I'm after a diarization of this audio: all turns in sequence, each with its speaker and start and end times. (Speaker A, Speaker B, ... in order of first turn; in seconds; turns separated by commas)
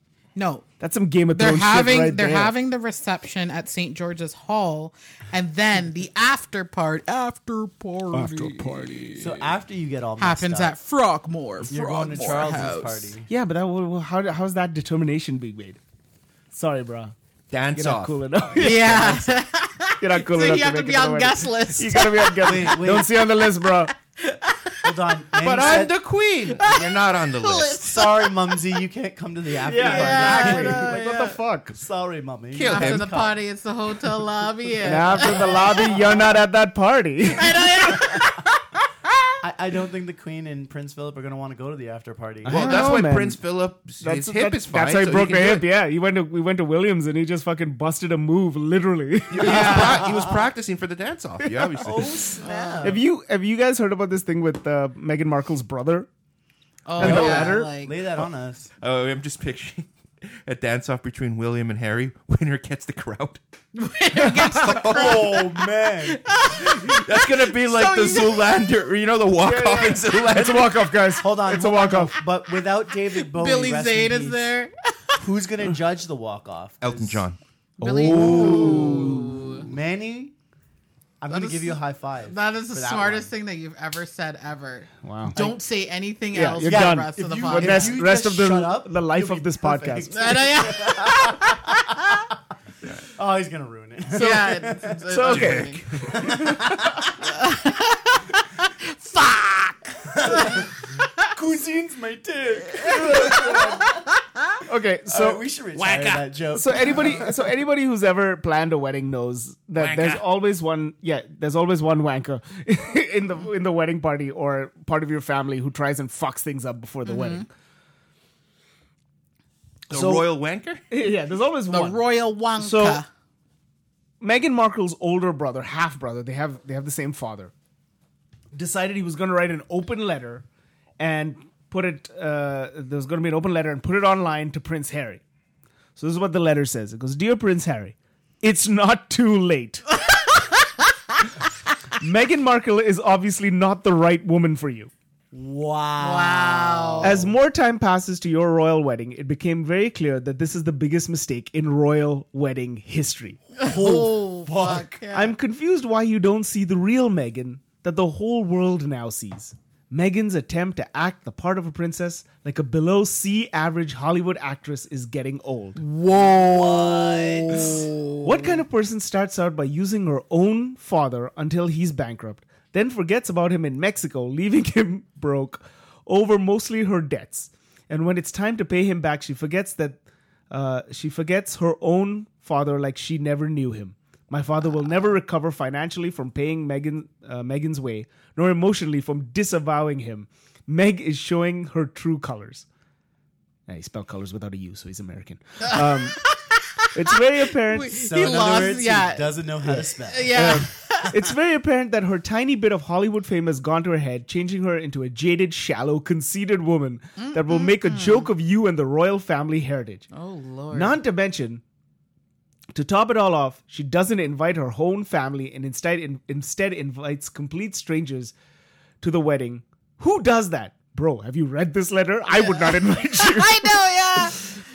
Speaker A: 0.3-0.7, Speaker B: 0.8-2.5, Speaker A: 1.3-9.5, Speaker B: 8.1-9.1, Speaker C: 9.2-10.8, Speaker A: 10.2-13.1, Speaker C: 11.7-13.3, Speaker B: 13.3-15.8, Speaker B: 16.5-17.1, Speaker D: 17.5-18.6, Speaker B: 17.7-19.3, Speaker A: 18.6-22.9, Speaker B: 20.0-23.9, Speaker C: 22.4-23.1, Speaker A: 23.9-24.9, Speaker C: 24.8-25.9, Speaker D: 25.4-27.8, Speaker A: 26.5-28.8, Speaker C: 27.8-33.4, Speaker B: 29.6-31.8, Speaker A: 29.7-31.4, Speaker D: 32.5-33.1, Speaker A: 32.6-36.1, Speaker B: 34.8-38.2, Speaker C: 34.9-36.3, Speaker A: 37.3-38.6, Speaker C: 39.4-43.0, Speaker B: 42.4-43.4, Speaker D: 42.5-45.7, Speaker B: 44.0-50.0, Speaker D: 49.3-52.3, Speaker A: 49.4-50.0, Speaker C: 49.7-50.3, Speaker B: 51.4-51.8, Speaker C: 51.8-53.0, Speaker A: 52.4-53.0, Speaker B: 52.8-56.1, Speaker A: 56.9-58.0, Speaker B: 57.0-57.7, Speaker C: 57.0-58.7, Speaker D: 58.8-63.4, Speaker A: 63.7-68.6, Speaker D: 64.2-65.4, Speaker C: 64.8-66.2, Speaker D: 66.5-70.9, Speaker B: 69.4-72.2, Speaker C: 71.1-74.5, Speaker A: 73.0-75.2, Speaker C: 75.2-77.2, Speaker D: 76.8-77.4, Speaker A: 77.8-79.7, Speaker B: 77.8-79.5, Speaker C: 78.1-80.3, Speaker C: 81.2-83.3, Speaker A: 81.3-88.1, Speaker B: 85.0-85.3, Speaker C: 85.3-85.6, Speaker B: 86.3-90.2, Speaker C: 86.6-91.8, Speaker A: 90.1-92.3, Speaker C: 93.1-95.0, Speaker A: 94.1-96.0, Speaker B: 95.1-96.7, Speaker D: 95.3-96.5, Speaker C: 96.0-97.1, Speaker A: 97.2-101.3, Speaker C: 100.1-104.0, Speaker A: 102.8-104.5, Speaker B: 102.9-103.5, Speaker B: 104.6-117.5, Speaker C: 105.1-107.3, Speaker D: 109.8-110.2, Speaker A: 117.0-117.5, Speaker D: 119.9-120.8, Speaker B: 119.9-120.3, Speaker B: 120.9-122.0, Speaker A: 121.7-123.1, Speaker B: 122.6-123.0, Speaker B: 124.2-127.5, Speaker B: 128.5-130.4, Speaker B: 131.0-135.2, Speaker B: 135.9-139.8, Speaker B: 142.0-144.9, Speaker C: 145.3-147.3, Speaker A: 146.0-147.2, Speaker B: 147.0-153.4, Speaker A: 153.6-155.3, Speaker C: 153.6-155.0, Speaker B: 155.1-165.8, Speaker A: 165.8-168.5, Speaker C: 166.1-167.9, Speaker B: 168.2-192.7, Speaker B: 193.7-196.2, Speaker A: 195.6-201.1, Speaker B: 196.9-198.6, Speaker C: 198.0-200.6, Speaker B: 199.6-210.1, Speaker A: 207.2-208.3, Speaker A: 210.1-211.0, Speaker B: 210.7-211.6, Speaker B: 212.7-218.3, Speaker B: 219.0-223.8, Speaker A: 222.3-224.4